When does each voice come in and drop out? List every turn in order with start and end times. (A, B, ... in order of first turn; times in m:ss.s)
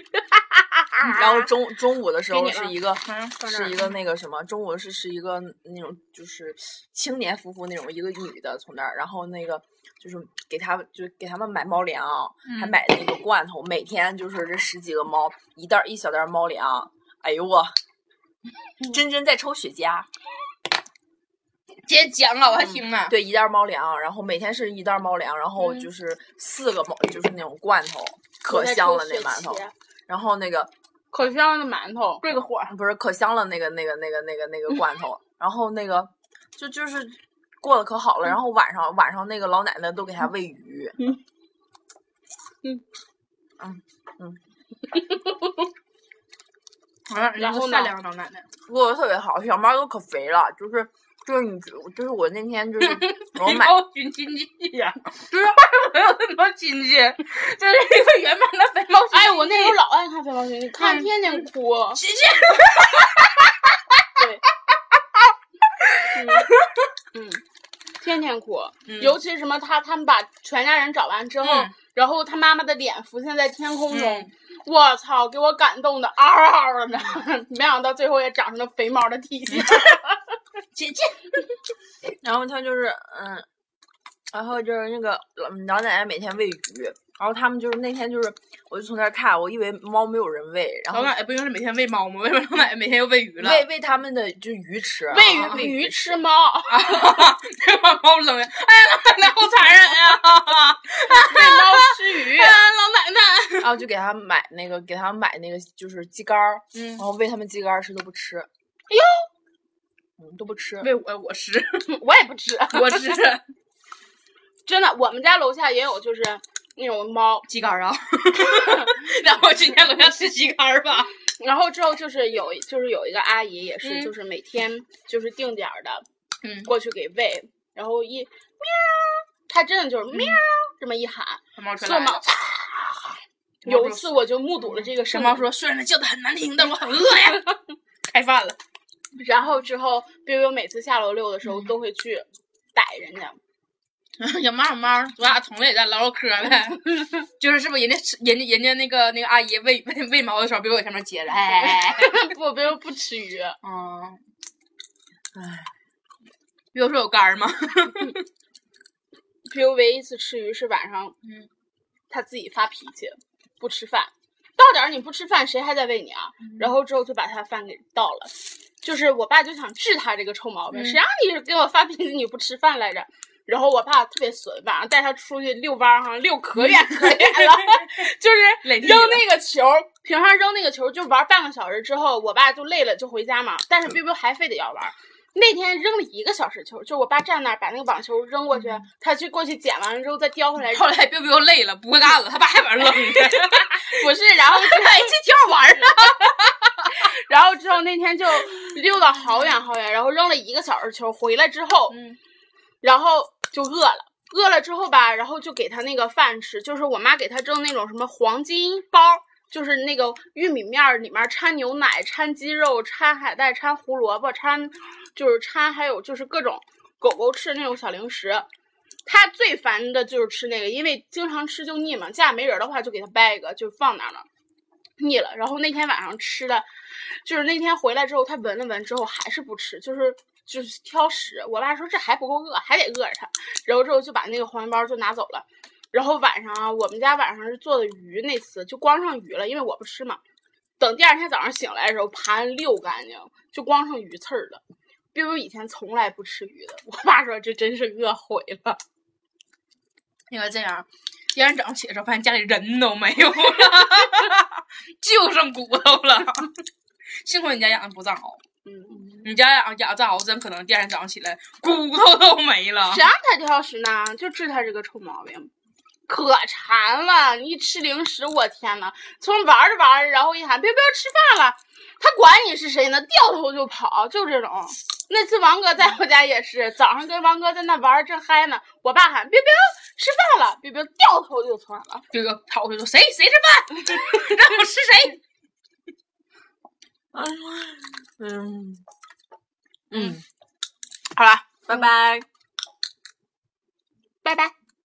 0:00.3-0:01.4 A
0:01.0-0:17.8 B
0:02.3-0:02.8 A
0:03.0-0:03.8 C
0:03.4-0:03.8 A
0:12.4-0:12.8 C
0:18.8-0:20.1 B
0:21.8-0:23.1 C
0:22.7-0:30.7 B
0:25.6-0:25.9 C
0:28.5-0:29.7 A
0:31.1-0:32.2 A
0:32.2-0:32.7 C
0:32.7-0:41.1 B
0:43.6-0:44.4 B
0:45.0-0:45.4 A
0:47.1-0:48.5 C
0:47.3-0:47.9 A
0:48.6-0:53.8 B
0:52.8-0:59.7 C
0:59.1-1:02.0 A
1:00.8-1:04.0 C
1:04.1-1:04.4 A
1:05.8-1:06.9 C
1:06.1-1:06.5 A
1:07.1-1:07.4 A
1:08.0-1:20.4 A
1:08.8-1:09.2 C
1:11.4-1:11.7 C
1:13.9-1:14.3 C
1:19.5-1:20.0 C
1:20.7-1:21.4 C
1:22.2-1:23.4 B
1:24.3-1:31.1 B
1:30.9-1:33.6 C
1:33.4-1:36.2 B
1:35.1-1:36.8 A
1:35.1-1:35.6 C
1:36.7-1:43.8 C
1:41.1-1:42.6 A
1:43.6-1:48.5 B
1:46.7-1:47.0 C
1:48.9-1:49.3 A
1:50.2-1:50.9 B
1:50.8-1:51.9 C
1:51.9-1:53.2 A
1:52.7-1:53.4 C
1:54.6-1:57.5 A
1:57.5-2:01.1 C
2:01.4-2:06.0 A
2:03.8-2:04.1 C
2:06.4-2:06.7 C
2:06.6-2:15.5 A
2:10.1-2:10.4 C
2:11.6-2:12.3 C
2:13.6-2:17.6 C
2:18.1-2:18.6 C
2:19.2-2:23.4 A
2:21.4-2:21.7 C
2:24.2-2:32.3 C
2:31.6-2:33.6 A
2:33.6-2:34.2 C
2:35.3-2:35.7 B
2:36.7-2:38.2 C
2:39.4-2:41.1 A
2:41.2-2:41.5 C
2:42.1-3:10.9 A
2:46.4-2:46.7 C
2:50.7-2:51.0 C
2:56.6-2:58.1 C
2:58.6-2:59.2 C
3:08.5-3:08.8 C
3:10.6-3:17.0 C
3:13.0-3:15.2 A
3:15.8-3:16.3 A
3:16.8-3:22.0 A
3:21.9-3:22.2 C
3:22.8-3:38.5 A
3:39.0-3:44.3 A
3:45.0-4:00.2 A
4:00.8-4:04.6 A
4:05.1-4:08.8 A
4:10.3-4:16.5 C
4:17.2-4:18.4 C
4:18.6-4:19.2 A
4:19.1-4:23.0 C
4:22.9-4:25.5 A
4:26.1-4:42.0 A
4:42.1-4:45.2 C
4:47.1-4:48.8 B
4:49.9-4:50.2 B
4:49.9-4:50.2 C
4:51.2-4:52.2 C
4:54.2-4:54.5 A